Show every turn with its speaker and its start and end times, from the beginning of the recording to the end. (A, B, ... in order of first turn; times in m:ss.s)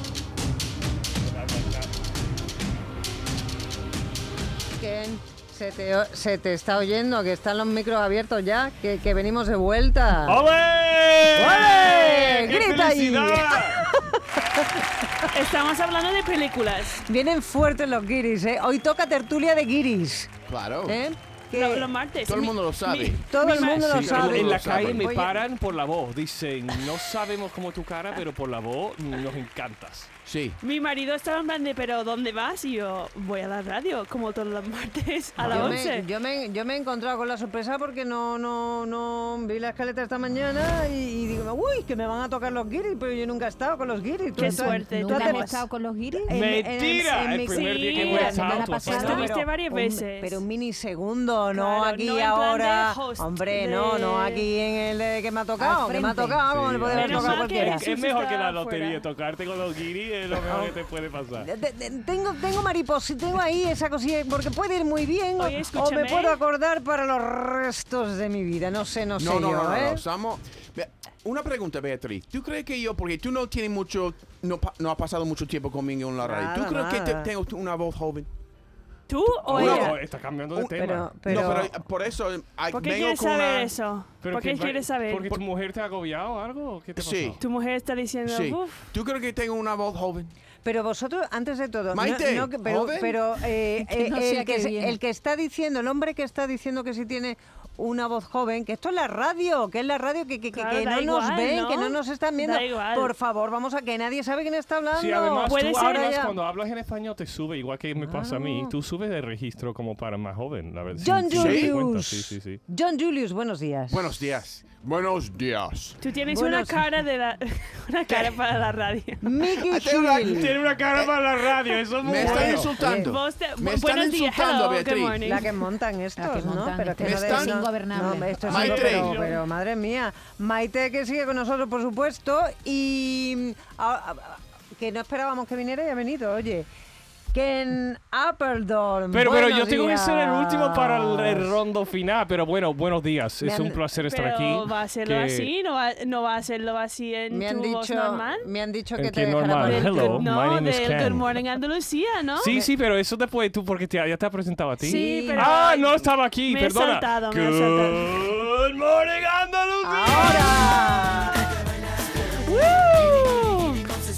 0:04.8-0:10.4 A
0:10.3-0:13.9 B
0:11.4-0:15.2 A
0:15.3-0:17.0 C
0:17.1-0:21.9 A
0:20.5-0:21.0 D
0:21.5-0:24.4 C
0:22.2-0:25.1 D
0:23.3-0:25.4 A
0:23.6-0:30.1 B
0:30.3-0:30.6 D
0:30.6-0:36.1 C
0:35.4-0:45.5 A
0:35.5-0:35.7 B
0:44.4-0:45.6 C
0:44.4-0:46.3 E
0:46.3-0:57.8 A
0:46.3-0:49.4 B
0:47.5-0:50.4 C
0:48.2-0:49.3 E
0:51.5-0:54.4 C
0:55.6-0:56.4 E
0:56.5-1:01.5 B
0:56.9-0:59.0 C
1:00.3-1:00.8 A
1:01.4-1:10.0 A
1:05.4-1:06.4 C
1:09.2-1:18.3 D
1:16.2-1:17.3 A
1:19.1-1:19.9 C
1:19.5-1:19.9 D
1:19.5-1:21.7 B
1:19.6-1:20.0 A
1:20.5-1:23.7 D
1:20.8-1:21.7 A
1:22.7-1:25.3 C
1:24.2-1:27.4 B
1:27.0-1:27.4 D
1:27.4-1:28.9 C
1:28.3-1:30.3 D
1:30.6-1:46.4 A
1:31.9-1:33.2 D
1:33.8-1:35.0 E
1:40.5-1:43.1 C
1:44.9-1:52.6 B
1:45.5-1:46.2 C
1:48.0-1:48.7 A
1:51.0-1:54.2 A
1:51.3-1:51.8 D
1:53.9-1:56.0 D
1:56.0-1:59.3 C
1:56.3-1:56.9 A
1:59.2-2:00.6 A
1:59.6-2:01.3 D
2:00.2-2:02.9 B
2:02.0-2:05.3 D
2:02.1-2:03.2 A
2:02.9-2:05.5 C
2:05.2-2:16.7 A
2:06.2-2:08.4 E
2:07.0-2:07.6 D
2:08.4-2:09.2 D
2:08.4-2:09.4 B
2:17.3-2:21.6 A
2:19.1-2:25.5 B
2:23.4-2:23.8 A
2:24.0-2:28.5 C
2:27.3-2:30.3 A
2:29.0-2:31.3 B
2:29.6-2:32.5 C
2:32.4-2:41.0 B
2:34.8-2:35.5 E
2:34.8-2:38.2 C
2:39.8-2:41.4 A
2:42.5-2:43.9 C